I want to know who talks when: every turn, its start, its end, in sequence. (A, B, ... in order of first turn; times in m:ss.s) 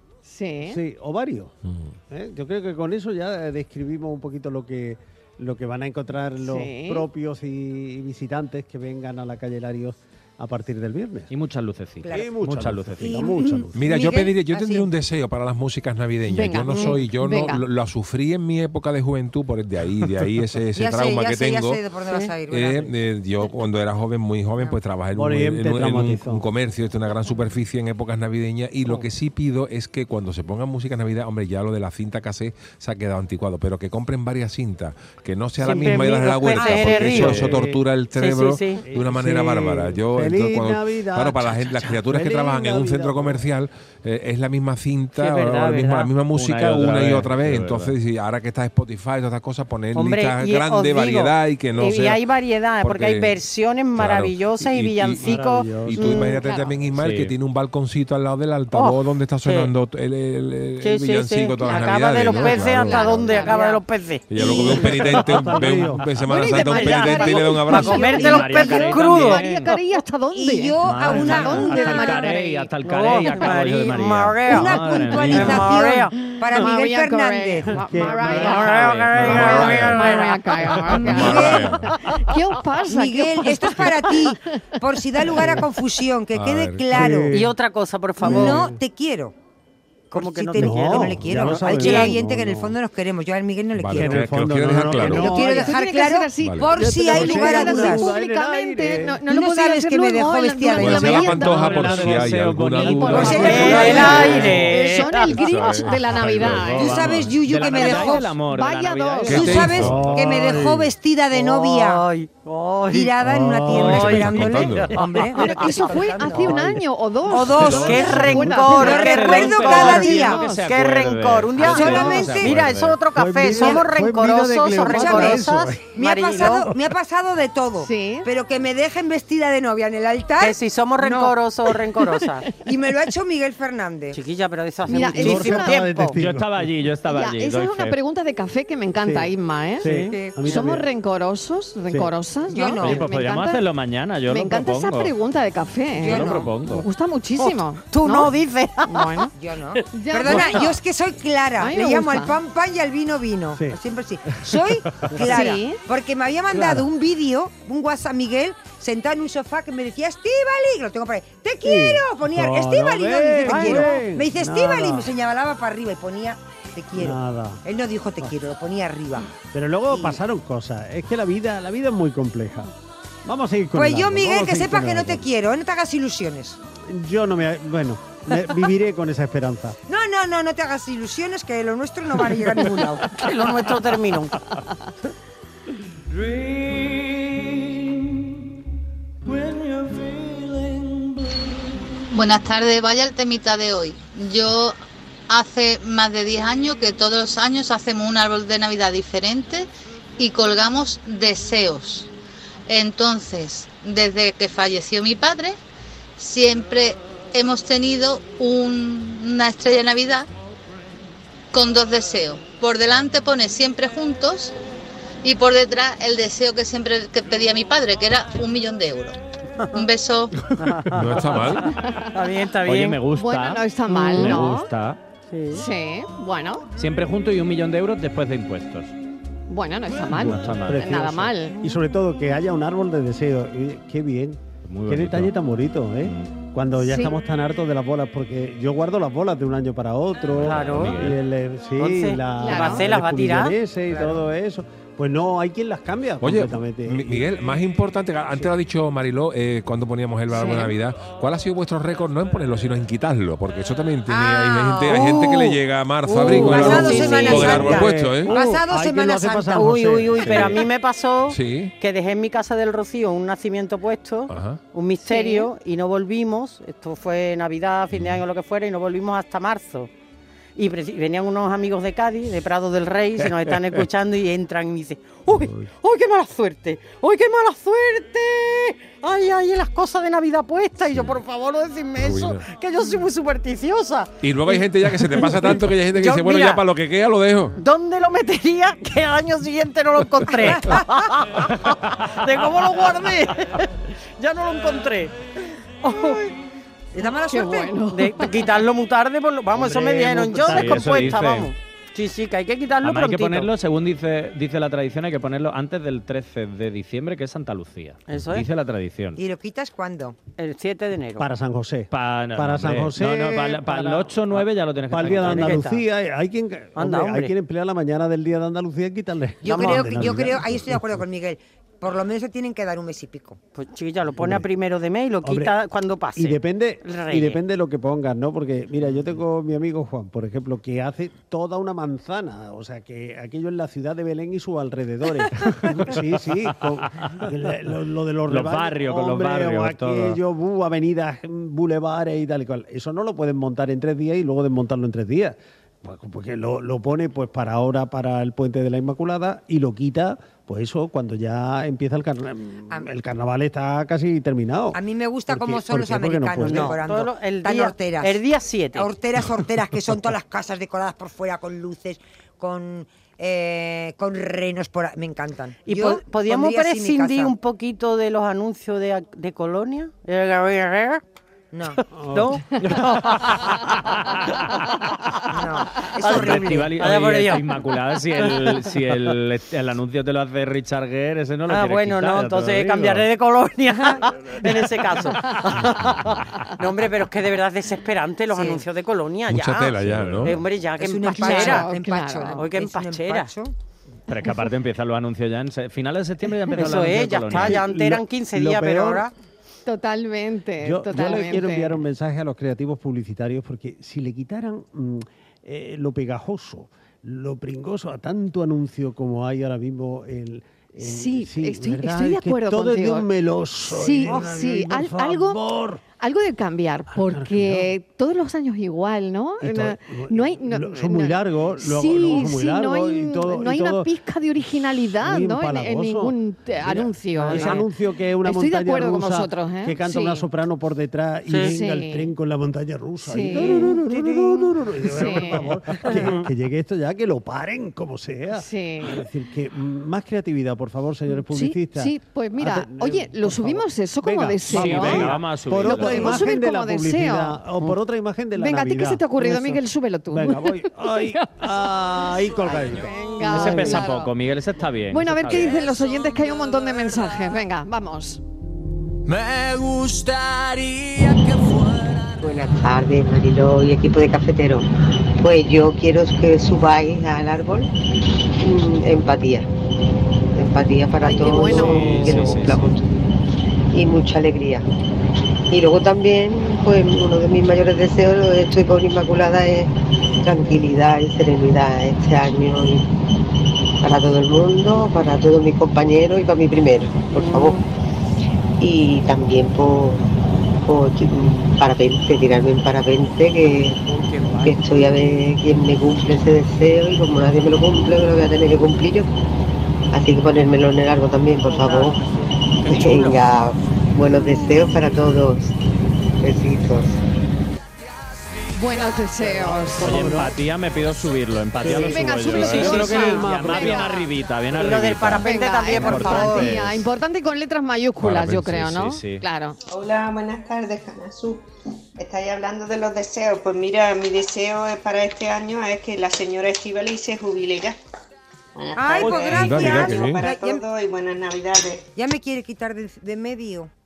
0:00.2-0:00.8 A
0:00.6-0:01.5 B
0:01.7-0:01.9 C
0:02.1-0:11.3 B
0:06.4-0:07.1 A
0:11.3-0:13.4 D
0:12.0-0:12.3 E
0:12.1-0:13.8 B
0:13.0-0:14.9 E
0:13.8-0:21.8 C
0:16.3-0:17.6 A
0:20.8-0:23.0 E
0:22.1-0:22.3 F
0:22.5-0:52.2 C
0:25.2-0:26.5 B
0:35.6-0:37.5 F
0:36.6-0:37.1 E
0:37.0-0:37.8 B
0:37.2-0:37.5 D
0:38.1-0:38.8 F
0:38.9-0:43.5 B
0:45.2-0:46.1 F
0:46.3-0:47.9 D
0:49.9-0:56.5 F
0:52.8-0:53.4 C
0:53.9-1:03.5 C
0:55.2-0:56.4 B
0:56.3-0:56.7 A
0:56.9-0:57.4 D
0:58.7-0:59.7 F
1:00.8-1:05.5 F
1:02.3-1:03.8 A
1:04.3-1:08.2 C
1:04.7-1:06.1 B
1:06.2-1:12.7 A
1:06.3-1:09.4 F
1:07.7-1:08.8 E
1:07.7-1:09.7 D
1:10.3-1:12.3 E
1:10.8-1:15.8 D
1:12.8-1:16.2 F
1:14.5-1:17.8 E
1:16.3-1:24.2 A
1:17.8-1:18.6 B
1:18.2-1:21.4 F
1:18.4-1:19.5 D
1:19.4-1:20.0 C
1:21.0-1:21.9 C
1:21.1-1:21.7 E
1:22.9-1:27.3 E
1:25.2-1:25.7 B
1:26.3-1:27.1 C
1:26.9-1:27.5 B
1:27.3-1:28.7 F
1:28.2-1:28.8 B
1:28.2-1:29.3 E
1:30.1-1:34.3 E
1:30.1-1:32.2 F
1:30.6-1:32.8 B
1:33.8-1:35.4 C
1:33.9-1:35.7 B
1:35.0-1:42.2 A
1:35.1-1:38.1 E
1:36.4-1:36.7 C
1:36.8-1:39.2 B
1:39.3-1:41.4 E
1:40.7-1:47.2 C
1:41.4-1:44.6 B
1:41.9-1:44.6 D
1:42.8-1:47.1 A
1:43.1-1:44.2 E
1:43.4-1:45.8 F
1:46.6-1:50.7 D
1:46.7-1:48.2 E
1:47.7-1:49.6 A
1:49.2-1:50.2 C
1:49.3-1:52.1 E
1:49.7-1:50.9 B
1:51.3-1:53.2 F
1:52.9-1:55.4 E
1:53.2-1:54.5 B
1:53.7-1:54.1 D
1:53.8-1:56.6 F
1:53.9-1:55.0 C
1:55.3-2:00.6 A
1:56.3-1:56.8 B
1:57.3-2:00.4 E
1:57.4-2:06.7 F
1:57.6-2:03.0 D
1:57.9-1:58.9 B
2:01.6-2:02.5 E
2:03.2-2:05.9 B
2:03.5-2:03.9 E
2:04.9-2:11.3 E
2:04.9-2:05.4 A
2:06.4-2:06.9 B
2:07.8-2:08.3 A
2:10.4-2:12.5 F
2:12.6-2:14.2 E
2:14.1-2:16.1 F
2:14.9-2:16.7 B
2:14.9-2:16.0 A
2:16.2-2:18.0 D
2:17.1-2:19.9 A
2:19.0-2:20.9 B
2:19.8-2:20.2 F
2:20.4-2:23.6 A
2:22.5-2:23.0 E
2:22.8-2:25.1 D
2:24.3-2:28.3 A
2:26.0-2:26.5 E
2:26.0-2:26.9 D
2:27.4-2:29.3 F
2:28.8-2:29.3 A
2:29.4-2:49.4 E
2:29.9-2:30.7 A
2:30.2-2:30.7 F
2:31.6-2:32.4 A
2:35.0-2:35.2 B
2:35.2-2:35.8 A
2:36.5-2:36.9 B
2:41.6-2:45.1 B
2:43.5-2:44.0 F
2:46.9-2:47.6 B
2:49.5-2:52.7 B
2:49.9-2:50.2 E
2:53.2-2:55.2 B
2:53.7-2:56.6 E
2:56.8-2:59.8 B
2:59.9-3:03.2 E
3:03.1-3:04.4 F
3:06.3-3:07.8 G
3:09.3-3:11.1 G
3:12.1-3:14.8 H
3:15.3-3:22.1 H
3:22.7-3:25.6 H
3:26.2-3:30.3 H
3:31.5-3:34.5 H
3:35.2-3:39.2 H
3:39.7-3:40.4 H
3:40.6-3:41.6 F
3:40.9-3:41.6 C
3:41.7-3:42.2 A
3:42.1-3:43.0 F
3:42.6-3:45.0 D
3:43.2-3:44.7 A
3:43.9-3:44.4 F
3:45.3-3:45.6 F
3:45.5-3:46.6 A
3:46.8-3:48.9 D
3:49.5-3:51.6 A
3:50.0-4:07.4 B
3:50.1-3:51.1 D
3:54.6-3:55.3 D
3:56.0-3:56.3 D
3:56.8-3:57.1 A
4:00.3-4:01.2 D
4:00.4-4:01.0 F
4:01.8-4:03.6 F
4:02.4-4:02.8 A
4:03.9-4:04.2 E
4:06.2-4:18.3 C
4:10.3-4:10.7 A
4:14.1-4:15.6 E
4:16.0-4:17.7 F
4:16.2-4:20.6 B
4:16.2-4:20.6 E
4:20.1-4:29.9 F
4:21.3-4:21.7 C
4:24.3-4:24.6 C
4:25.0-4:25.5 A
4:27.9-4:28.2 C
4:30.6-4:46.6 F
4:35.4-4:35.6 C
4:40.9-4:41.2 C
4:42.0-4:42.4 C
4:44.2-4:47.6 C
4:47.6-4:55.2 F
4:50.3-4:50.8 E
4:55.8-4:56.4 F
4:56.9-4:57.8 E
4:57.2-4:58.5 A
4:57.9-5:03.5 F
4:59.6-5:01.0 B
5:00.4-5:01.5 D
5:02.8-5:09.2 D
5:08.1-5:08.5 F
5:09.2-5:10.2 E
5:10.4-5:11.2 F
5:11.2-5:21.0 B
5:11.9-5:15.6 D
5:15.2-5:15.8 F
5:16.8-5:17.3 F
5:19.4-5:23.4 E
5:19.5-5:20.0 F
5:23.6-5:27.4 F
5:24.2-5:24.5 B
5:25.2-5:25.6 B
5:26.2-5:54.8 B
5:38.3-5:40.2 D
5:54.7-5:58.2 E
5:55.3-5:56.8 B
5:56.4-5:58.9 F
5:58.7-6:07.4 E
6:05.6-6:11.0 F
6:11.5-6:11.8 E
6:11.7-6:13.8 F
6:11.9-6:13.0 B
6:15.3-6:16.7 E
6:16.0-6:17.4 F
6:16.1-6:22.9 D
6:18.2-6:18.7 F
6:21.5-6:31.7 F
6:22.2-6:23.0 B
6:28.3-6:28.6 E
6:29.3-6:30.4 C
6:29.9-6:30.4 D
6:30.8-6:33.5 E
6:31.1-6:32.4 A
6:32.3-6:33.3 F
6:34.1-6:37.6 D
6:36.5-6:39.1 F
6:37.3-6:39.1 B
6:39.6-6:41.8 A
6:40.6-6:55.8 B
6:50.8-6:53.1 A
6:53.7-6:55.4 A
6:56.0-7:07.7 A
6:56.9-6:57.7 B
6:59.4-7:03.9 B
7:05.0-7:33.8 B
7:07.2-7:07.6 F
7:08.2-7:10.3 A
7:11.3-7:11.5 F
7:11.4-7:12.1 A
7:13.0-7:13.8 A
7:14.4-7:15.5 A
7:15.9-7:16.2 F
7:18.4-7:19.0 A
7:21.1-7:27.5 A
7:24.5-7:26.2 D
7:28.4-7:31.5 A
7:32.4-7:34.1 A
7:33.2-7:35.6 D
7:33.4-7:33.8 F
7:34.9-7:38.2 A
7:39.1-7:42.3 G
7:42.2-7:44.7 I
7:45.2-7:47.7 I
7:48.4-7:49.5 I
7:50.4-7:52.8 I
7:51.0-7:52.4 A
7:51.3-7:52.8 D
7:53.7-7:54.6 I
7:55.5-8:02.9 I
8:03.8-8:07.6 I
8:07.1-8:07.6 F
8:08.6-8:10.1 I
8:10.6-8:13.8 I
8:13.8-8:15.0 F
8:14.4-8:19.1 I
8:19.9-8:22.0 I
8:21.4-8:23.3 F
8:22.6-8:25.6 I
8:26.2-8:27.0 I
8:28.5-8:30.2 A
8:29.2-8:30.3 B
8:29.8-8:36.9 D
8:31.6-8:33.9 B
8:31.7-8:34.1 A
8:32.4-8:33.2 F
8:34.5-8:36.6 F
8:35.1-8:39.6 A
8:38.0-8:38.7 C
8:38.7-8:39.2 D
8:39.7-8:41.5 J
8:42.0-8:47.8 J
8:48.6-8:51.9 J
8:48.8-8:50.6 E
8:49.2-8:50.2 C
8:51.9-8:53.7 E